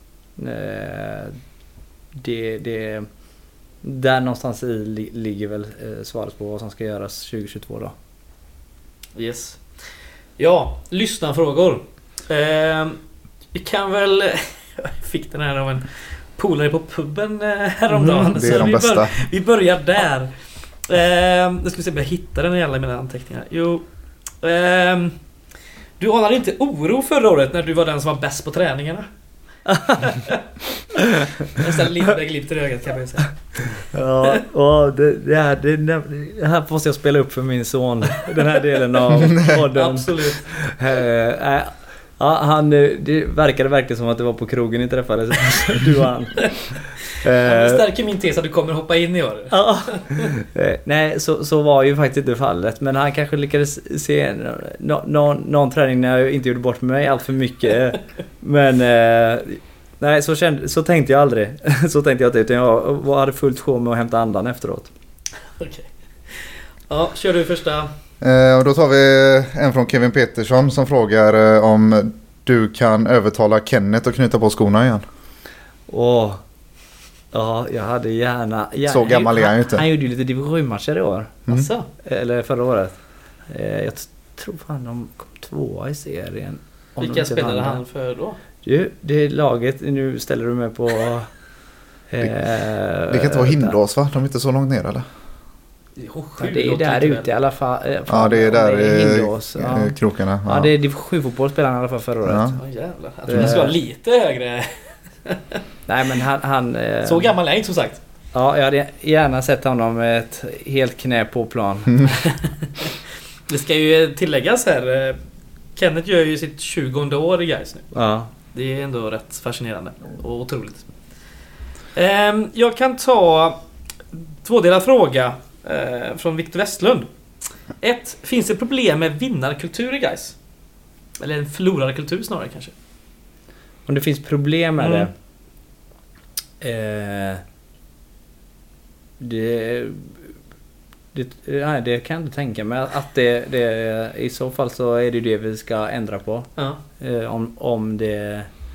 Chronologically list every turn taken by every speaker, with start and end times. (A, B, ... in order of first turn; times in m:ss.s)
0:00.4-0:01.4 A
0:02.2-0:03.1 A
0:03.8-0:07.9 A
0:09.2-0:13.0 B
0:13.5-0:23.8 B
0:17.9-0:18.6 A
0:18.4-0:19.2 C
0:24.4-0:25.2 B
0:26.0-0:29.1 B
0:29.7-0:30.0 A
0:30.0-0:30.4 B
0:31.5-0:34.4 B
0:33.8-0:47.8 A
0:39.5-0:40.5 B
0:47.4-0:50.3 B
0:49.5-1:04.9 A
1:05.6-1:07.9 B
1:08.2-1:15.0 C
1:15.9-1:16.4 A
1:17.3-1:21.4 A
1:18.9-1:19.8 C
1:21.5-1:21.9 B
1:22.0-1:23.0 A
1:23.5-1:27.8 A
1:27.0-1:28.4 B
1:28.6-1:31.3 A
1:32.1-1:33.8 A
1:33.1-1:35.1 C
1:36.0-1:37.3 B
1:36.4-1:42.6 A
1:38.1-1:40.7 C
1:42.3-1:42.6 C
1:42.6-1:45.6 B
1:43.3-1:43.8 A
1:43.3-1:43.6 C
1:45.9-1:47.3 A
1:47.1-1:48.0 B
1:48.3-1:52.2 A
1:52.2-1:55.2 B
1:55.8-1:57.9 B
1:57.9-1:58.3 A
1:58.5-2:00.8 B
2:01.9-2:03.6 B
2:04.1-2:07.1 B
2:07.8-2:10.4 B
2:11.2-2:12.7 B
2:13.9-2:15.1 A
2:14.8-2:15.1 B
2:16.6-2:17.4 A
2:19.2-2:20.2 A
2:21.1-2:28.5 A